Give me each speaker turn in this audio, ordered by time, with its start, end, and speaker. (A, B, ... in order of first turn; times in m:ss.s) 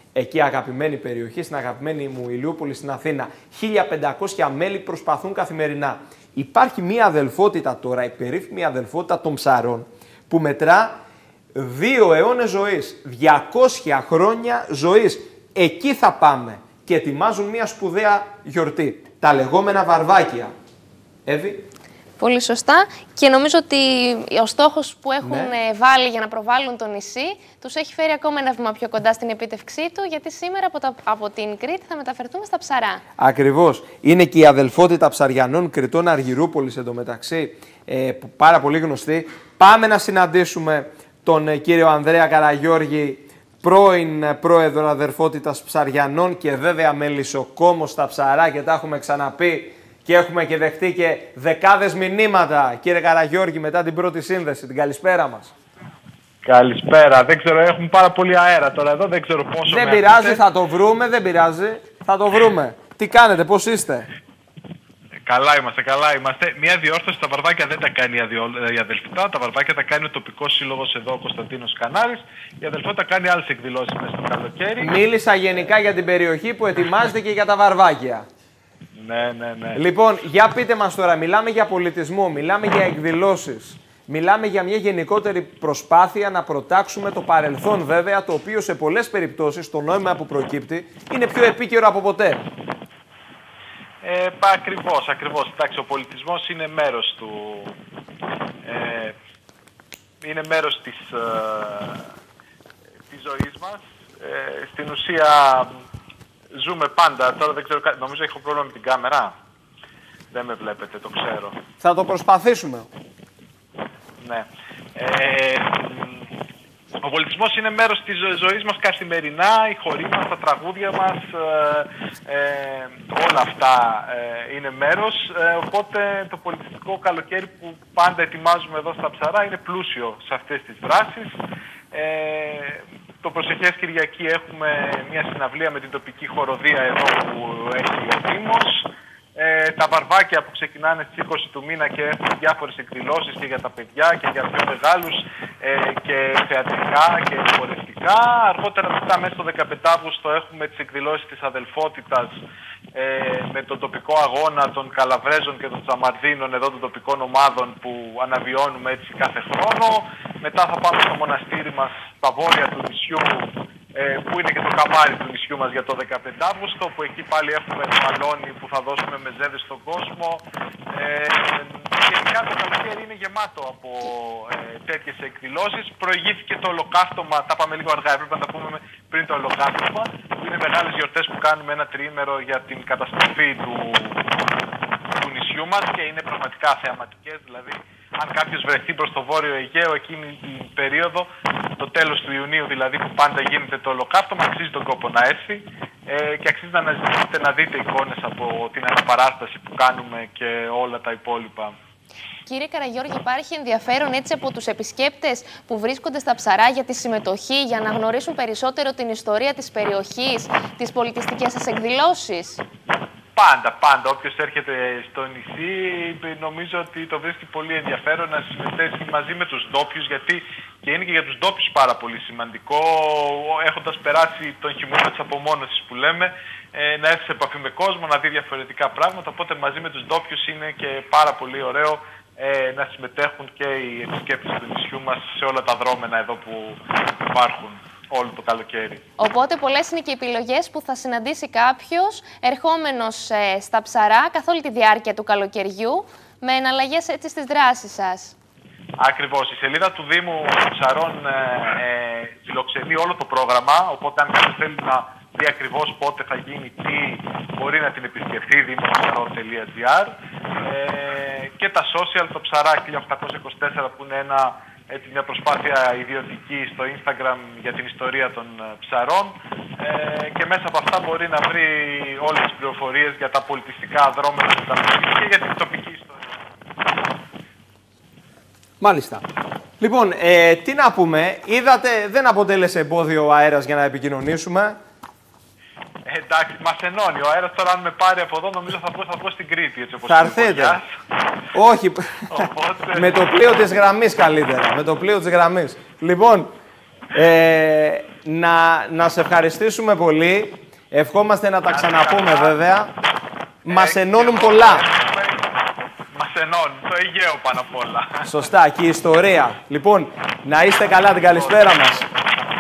0:00.2-0:11.0 A
0:11.6-0:20.5 A
0:21.3-0:21.6 A
0:22.2-0:33.0 B
0:25.2-0:25.5 A
0:33.2-0:55.5 A
0:56.4-1:00.4 C
0:59.7-1:04.1 A
1:05.3-1:14.9 C
1:14.8-1:18.3 A
1:18.9-1:19.8 C
1:19.8-1:32.5 A
1:34.0-1:37.8 C
1:38.6-1:39.2 C
1:40.2-1:42.1 C
1:43.1-1:45.7 C
1:46.5-1:49.3 C
1:50.3-1:51.6 C
1:51.8-1:52.9 A
1:54.2-1:56.3 C
1:57.0-2:11.4 C
2:11.9-2:32.4 C
2:33.0-3:04.3 C
3:05.1-3:21.8 C
3:22.5-3:32.6 B
3:33.4-3:59.0 C
3:59.2-4:08.4 B
4:09.0-4:36.4 C
4:38.8-4:39.2 A
4:39.8-4:44.8 A
4:46.1-4:50.9 C
4:50.0-4:50.8 A
4:51.5-4:52.3 A
4:52.3-4:53.1 C
4:52.9-4:56.5 A
4:57.1-5:02.9 A
5:01.7-5:02.6 C
5:03.7-5:04.9 A
5:03.7-5:05.4 C
5:06.1-5:08.3 C
5:08.2-5:12.1 A
5:11.2-5:11.9 C